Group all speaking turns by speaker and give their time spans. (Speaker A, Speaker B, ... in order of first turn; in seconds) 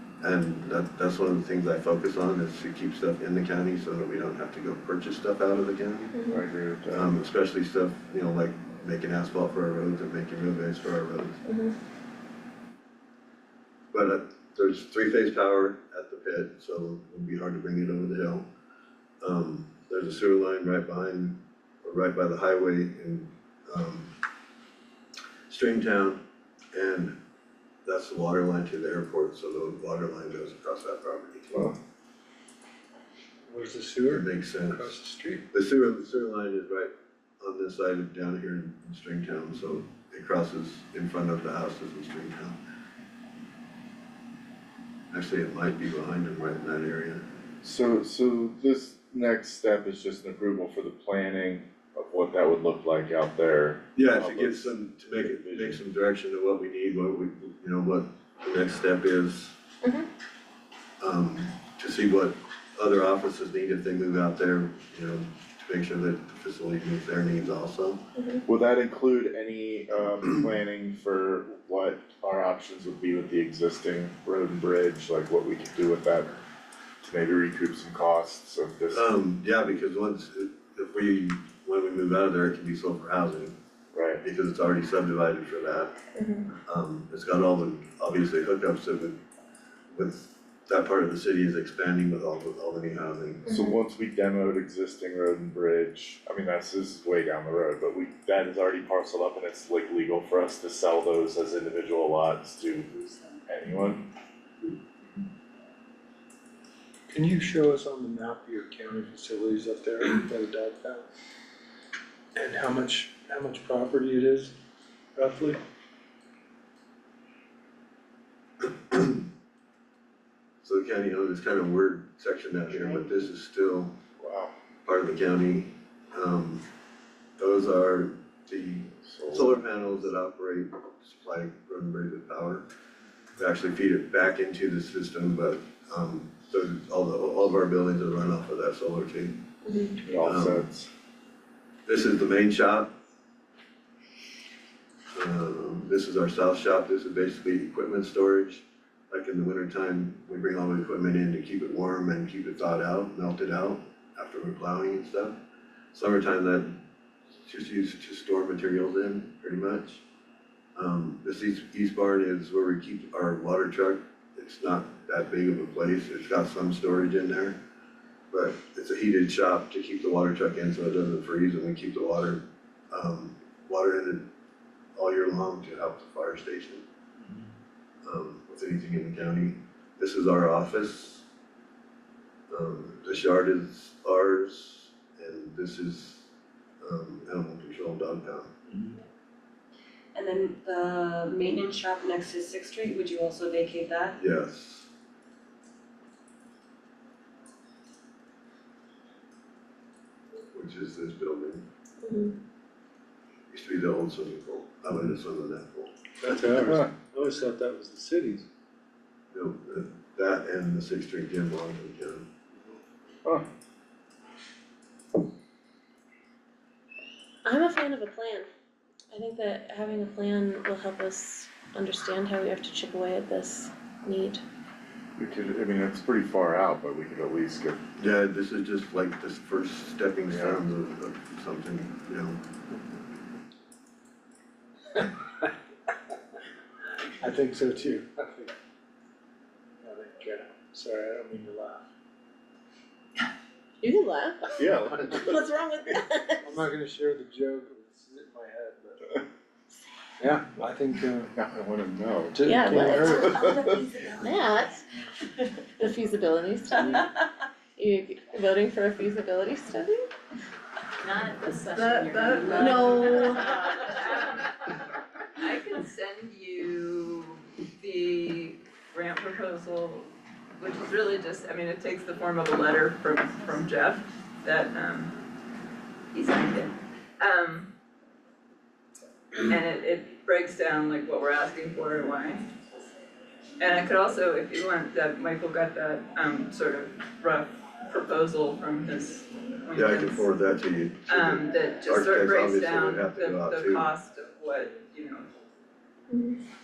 Speaker A: 0.2-6.1, 6.9-11.4, 13.9-18.5, 19.2-24.1, 25.5-26.2, 26.7-27.1, 27.8-31.6, 34.1-42.6, 45.1-47.2, 53.9-59.5, 61.0-68.0, 78.9-83.5, 84.2-85.9, 86.7-89.2, 89.9-93.5, 118.9-119.2, 120.6-124.0, 124.8-126.6, 127.4-132.6, 133.4-139.4, 140.2-140.6, 141.9-142.9, 145.1-155.3, 155.9-156.8, 157.4-160.0, 160.8-167.6, 168.3-174.3, 174.9-176.8, 178.0-181.2, 182.5-186.3, 186.8-188.5, 194.2-194.9, 200.5-201.6, 203.5-206.0, 209.3-212.3, 228.0-232.4, 289.7-293.9
Speaker B: 6.1-6.4, 11.4-11.7, 68.2-68.4, 86.1-86.5, 93.5-93.8, 139.6-140.0, 202.0-202.3, 217.4-218.5, 219.1-224.4, 243.8-246.7, 252.4-253.4, 254.2-254.8, 255.4-257.1, 257.8-260.1, 262.6-263.5, 296.1-296.4
Speaker C: 6.3-7.1, 31.5-31.8, 47.6-55.8, 68.5-76.4, 77.0-79.1, 83.9-84.2, 93.5-102.9, 103.4-104.1, 124.2-124.5, 129.0-129.6, 140.0-140.9, 206.6-206.9, 225.2-227.8, 230.3-230.6, 244.6-245.4, 251.3-253.9
Speaker D: 33.5-35.4, 107.1-111.0, 112.4-114.5, 115.2-115.6, 206.4-208.2, 235.0-235.5, 237.2-238.5, 239.8-241.8, 246.5-248.8, 250.2-251.2, 252.3-253.3
Speaker E: 102.9-103.3, 190.1-194.2, 253.0-254.2, 261.4-263.3
Speaker F: 261.7-264.5, 265.4-275.2, 276.1-277.7, 279.4-282.4, 283.6-290.3, 291.1-295.3